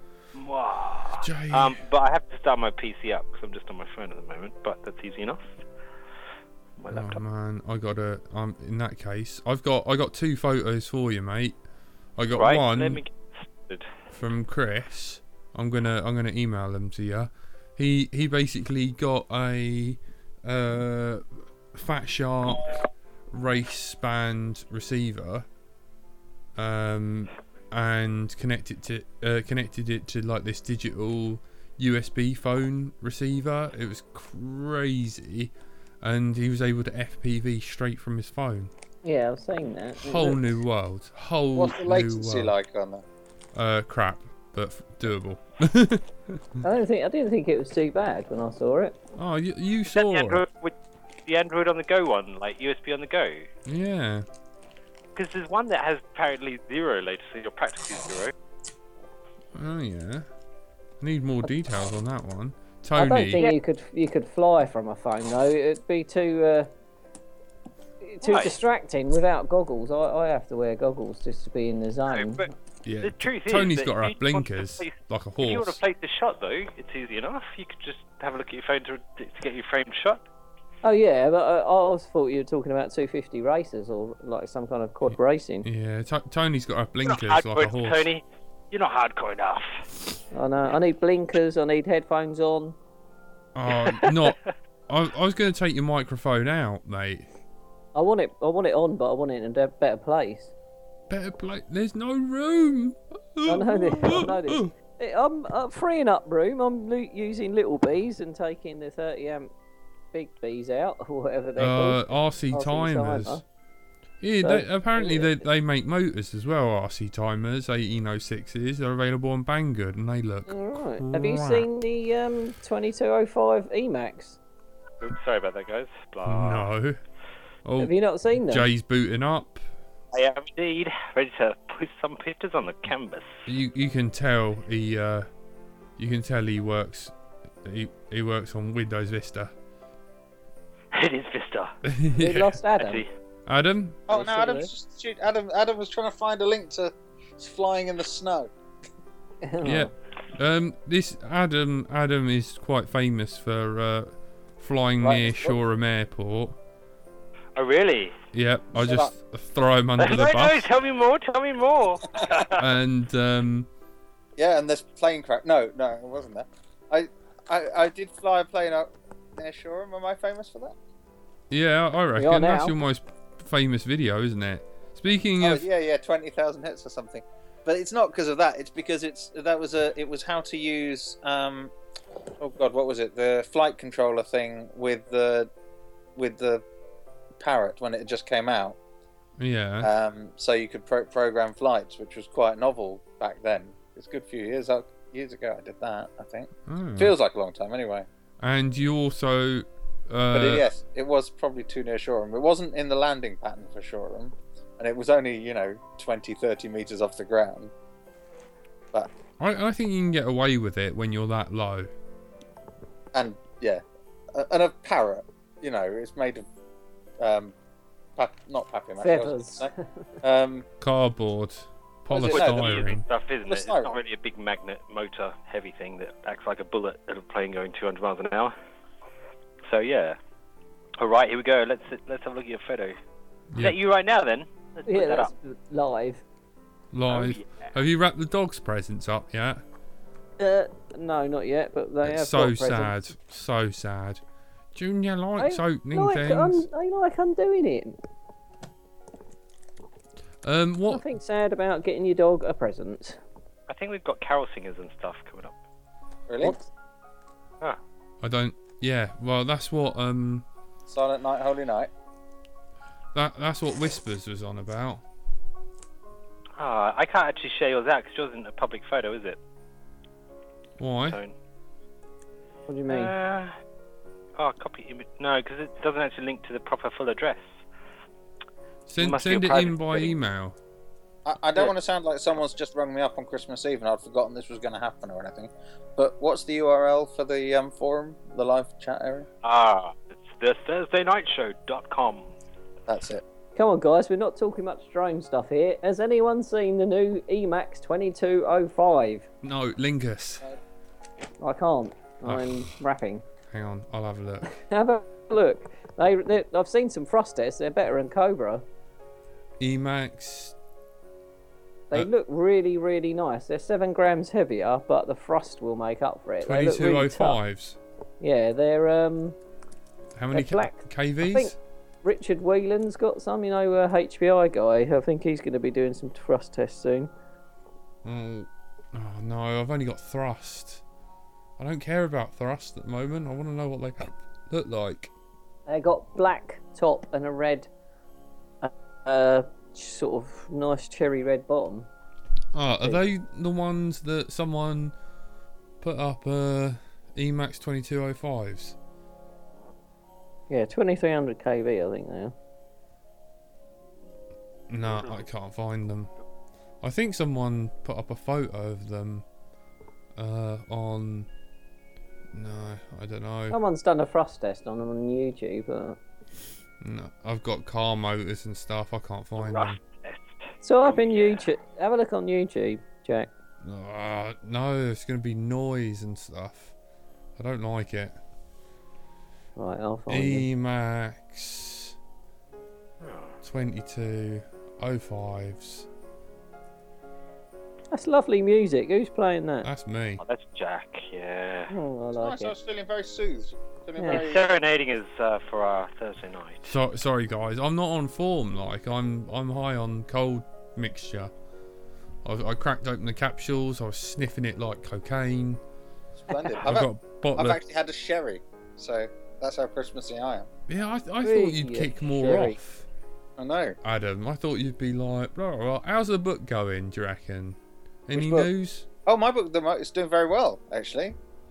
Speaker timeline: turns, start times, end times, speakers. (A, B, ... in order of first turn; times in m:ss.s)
0:00.4-0:05.6 A
0:01.2-0:01.8 B
0:06.8-0:07.2 A
0:06.9-0:11.6 B
0:12.2-0:13.0 B
0:12.4-0:13.9 A
0:14.1-0:22.8 B
0:23.3-0:25.5 B
0:26.6-0:38.7 B
0:39.0-0:40.5 C
0:40.0-0:42.5 B
0:41.6-0:43.0 D
0:43.6-0:46.6 B
0:46.6-0:49.0 C
0:49.2-0:50.4 B
0:49.9-0:53.5 A
0:53.7-0:54.3 B
0:55.2-0:58.3 A
0:59.6-1:00.3 B
1:01.0-1:03.4 B
1:03.0-1:06.7 C
1:08.0-1:12.5 C
1:08.2-1:08.6 A
1:12.1-1:12.5 A
1:12.8-1:15.8 B
1:13.0-1:20.2 A
1:20.8-1:25.7 C
1:25.6-1:28.1 B
1:27.0-1:29.9 A
1:30.3-1:32.8 C
1:33.6-1:34.4 B
1:33.7-1:34.5 A
1:34.9-1:37.3 B
1:38.0-1:40.5 C
1:41.1-1:44.7 B
1:43.5-1:49.5 C
1:50.1-1:53.4 C
1:51.6-1:53.4 B
1:54.2-2:01.7 B
1:54.4-1:55.4 C
2:00.5-2:04.4 C
2:05.0-2:06.7 A
2:06.2-2:07.0 B
2:07.6-2:09.6 B
2:07.8-2:08.7 C
2:10.1-2:13.5 A
2:13.5-2:15.3 B
2:16.0-2:19.5 B
2:20.9-2:21.8 A
2:21.8-2:22.6 B
2:22.2-2:23.0 C
2:22.8-2:23.1 A
2:23.5-2:24.0 B
2:24.1-2:28.5 D
2:24.1-2:24.7 C
2:29.4-2:29.9 C
2:29.6-2:36.6 B
2:35.0-2:35.6 D
2:37.6-2:38.2 A
2:38.3-2:40.7 B
2:38.8-2:39.1 D
2:40.0-2:42.7 A
2:42.2-2:42.4 D
2:42.6-2:43.7 B
2:44.4-2:50.8 D
2:51.5-2:55.7 B
2:52.2-2:52.8 C
2:55.4-3:01.7 D
3:02.4-3:05.5 D
3:06.2-3:06.6 D
3:07.4-3:08.8 D
3:09.4-3:09.9 B
3:09.8-3:18.1 D
3:16.7-3:17.1 B
3:18.4-3:20.7 B
3:20.3-3:27.7 D
3:29.4-3:31.9 B
3:33.1-3:33.8 D
3:34.3-3:36.5 D
3:37.2-3:37.5 D
3:38.2-3:39.7 D
3:39.0-3:39.9 C
3:40.2-3:40.7 D
3:40.8-3:43.0 B
3:42.1-3:44.0 D
3:42.2-3:48.5 A
3:49.7-3:50.2 A
3:51.0-3:53.0 A
3:53.6-3:55.3 A
3:54.9-3:56.2 C
3:56.9-3:59.6 B
3:57.1-3:57.7 A
4:00.4-4:03.0 C
4:02.0-4:04.2 B
4:04.7-4:06.7 B
4:05.4-4:08.0 C
4:10.4-4:11.0 B
4:10.9-4:13.2 C
4:13.7-4:15.6 A
4:16.3-4:16.6 D
4:16.4-4:16.7 C
4:18.2-4:20.4 B
4:20.9-4:21.9 D
4:23.1-4:25.0 B
4:26.6-4:29.4 A
4:30.8-4:31.2 B
4:31.0-4:31.3 A
4:32.7-4:33.1 C
4:32.9-4:33.5 A
4:34.4-4:37.5 A
4:38.9-4:40.6 B
4:39.0-4:40.2 A
4:41.2-4:49.3 D
4:49.4-4:52.3 A
4:52.9-4:53.2 D
4:53.6-4:59.3 C
4:59.4-5:00.4 B
5:01.4-5:03.2 C
5:03.5-5:04.5 B
5:04.5-5:08.6 C
5:09.6-5:10.6 B
5:11.9-5:17.4 C
5:16.4-5:17.8 B
5:18.2-5:19.4 C
5:20.2-5:21.6 B
5:20.3-5:27.1 C
5:28.0-5:30.8 B
5:31.6-5:35.1 B
5:35.7-5:37.7 C
5:38.6-5:41.9 C
5:42.5-5:44.9 B
5:42.8-5:43.1 C
5:45.8-5:48.8 B
5:50.5-5:52.3 C
5:54.7-5:56.1 B
5:56.8-5:59.2 B
6:00.2-6:01.3 B
6:02.3-6:03.6 B
6:03.5-6:06.0 C
6:06.8-6:09.8 B
6:09.4-6:11.5 A
6:10.6-6:13.3 C
6:13.6-6:16.7 B
6:17.4-6:18.2 B
6:19.6-6:20.5 C
6:20.1-6:22.0 B
6:23.0-6:23.4 A
6:23.4-6:25.9 B
6:27.9-6:29.7 C
6:29.6-6:30.2 B
6:30.2-6:31.7 A
6:31.7-6:32.5 C
6:32.2-6:34.5 D
6:34.1-6:36.7 A
6:36.6-6:41.3 B
6:42.2-6:45.6 B
6:46.2-6:50.5 D
6:46.6-6:47.6 B
6:50.7-6:52.9 B
6:51.2-6:52.6 C
6:53.4-6:53.8 D
6:53.8-6:58.9 B
6:58.1-6:58.5 D
6:59.1-7:01.2 D